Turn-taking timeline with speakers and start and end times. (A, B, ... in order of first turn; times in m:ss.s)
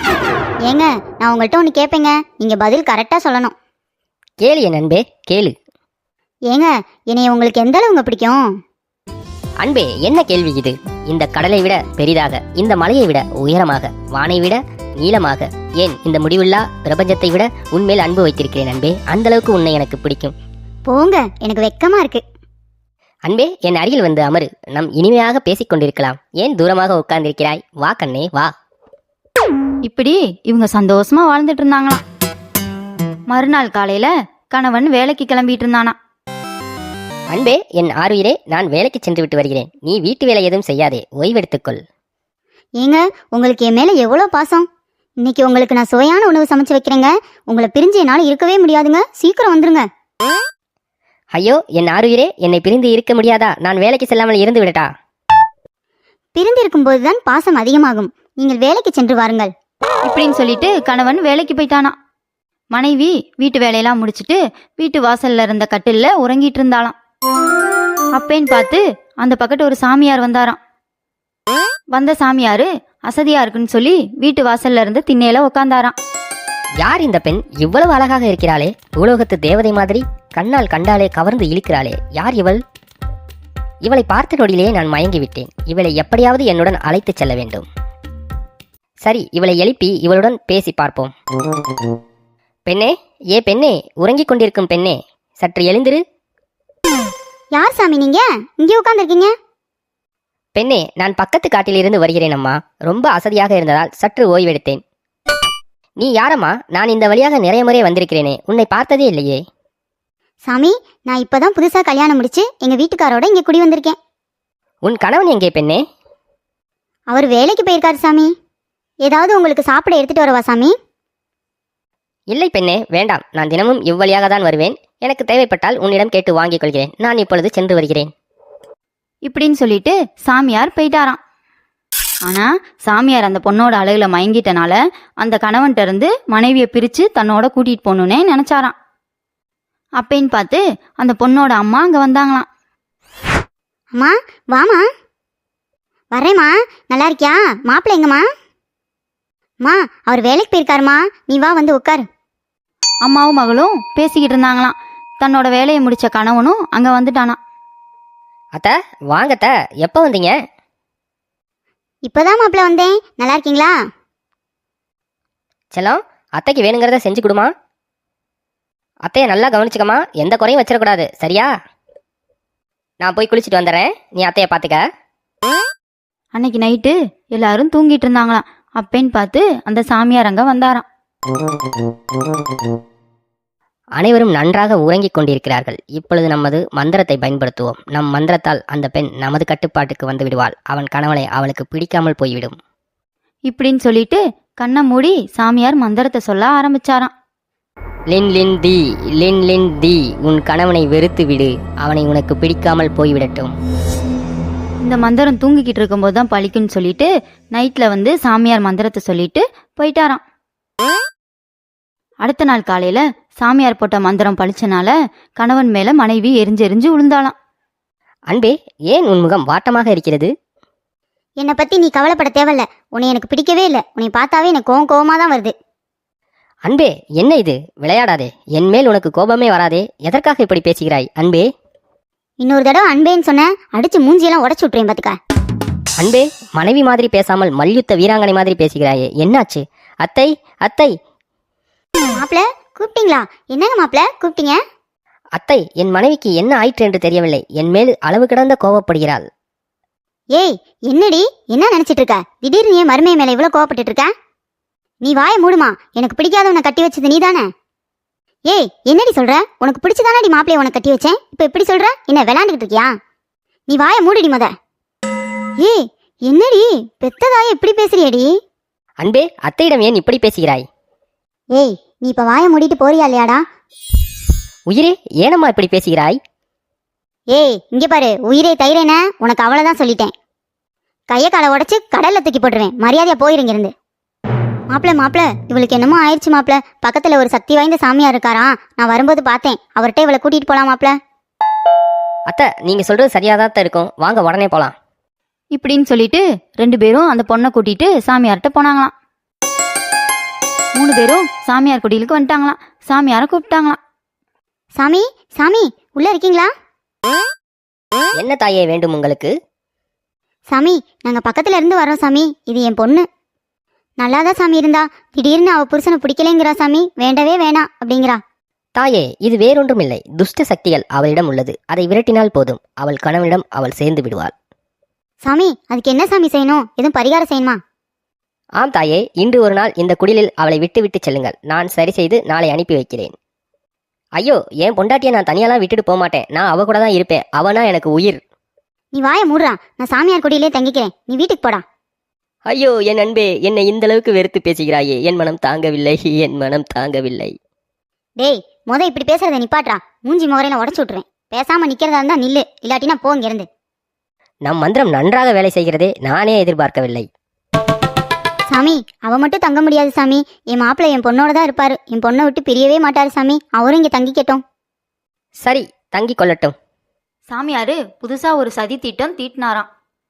0:00.7-0:03.5 A
0:04.4-0:05.5 B
0:06.5-0:08.5 A
0:09.6-0:20.3 B
0:20.9-0:22.2 A
0:23.3-0:28.5 B
0:29.9-0:32.0 C
0:33.3-0:36.0 C
0:37.3-0:41.8 B
0:42.8-0:44.7 A
0:45.2-0:49.9 A
0:51.4-0:54.9 B
0:56.4-0:59.5 A
1:00.1-1:02.0 C
1:02.7-1:07.0 C
1:08.2-1:10.6 C
1:11.9-1:16.0 C
1:16.8-1:22.6 B
1:23.8-1:27.7 B
1:29.0-1:31.1 B
1:32.7-1:36.0 B
1:37.6-1:39.3 A
1:40.6-1:44.8 B
1:46.0-1:49.4 B
1:50.5-1:54.0 A
1:54.8-1:55.8 B
1:57.1-1:58.3 A
1:59.0-2:00.8 A
2:02.3-2:08.1 B
2:09.3-2:11.2 C
2:12.2-2:18.7 C
2:20.0-2:22.5 C
2:23.9-2:24.8 A
2:26.1-2:28.2 A
2:29.6-2:32.1 A
2:33.0-2:37.4 C
2:38.6-2:40.3 B
2:42.1-2:43.8 A
2:45.7-2:47.5 B
2:49.1-2:51.5 B
2:53.0-2:54.8 B
2:56.4-3:00.8 C
3:04.0-3:12.6 B
3:13.5-3:17.1 C
3:18.1-3:23.6 B
3:24.8-3:30.2 C
3:32.2-3:37.3 C
3:38.3-3:40.3 B
3:41.4-3:45.5 A
3:46.7-3:51.4 B
3:52.4-3:55.2 A
3:56.0-4:00.9 B
4:02.2-4:04.6 A
4:05.4-4:09.3 B
4:10.4-4:14.1 A
4:15.0-4:17.5 A
4:18.5-4:22.9 A
4:23.7-4:24.5 A
4:25.6-4:28.3 A
4:29.0-4:30.6 B
4:31.6-4:33.4 A
4:34.7-4:36.2 B
4:37.3-4:40.1 A
4:41.1-4:43.7 A
4:44.7-4:51.0 A
4:52.3-4:54.7 B
4:55.5-4:58.9 C
5:00.8-5:03.8 C
5:04.8-5:06.5 A
5:08.2-5:09.3 B
5:10.5-5:13.1 A
5:14.0-5:18.2 A
5:18.8-5:24.3 B
5:25.2-5:27.6 A
5:28.6-5:33.1 B
5:34.2-5:38.2 B
5:38.9-5:41.6 A
5:42.5-5:47.4 B
5:48.2-5:53.5 A
5:54.4-5:57.1 B
5:58.5-6:04.4 A
6:05.4-6:06.6 B
6:07.3-6:09.7 C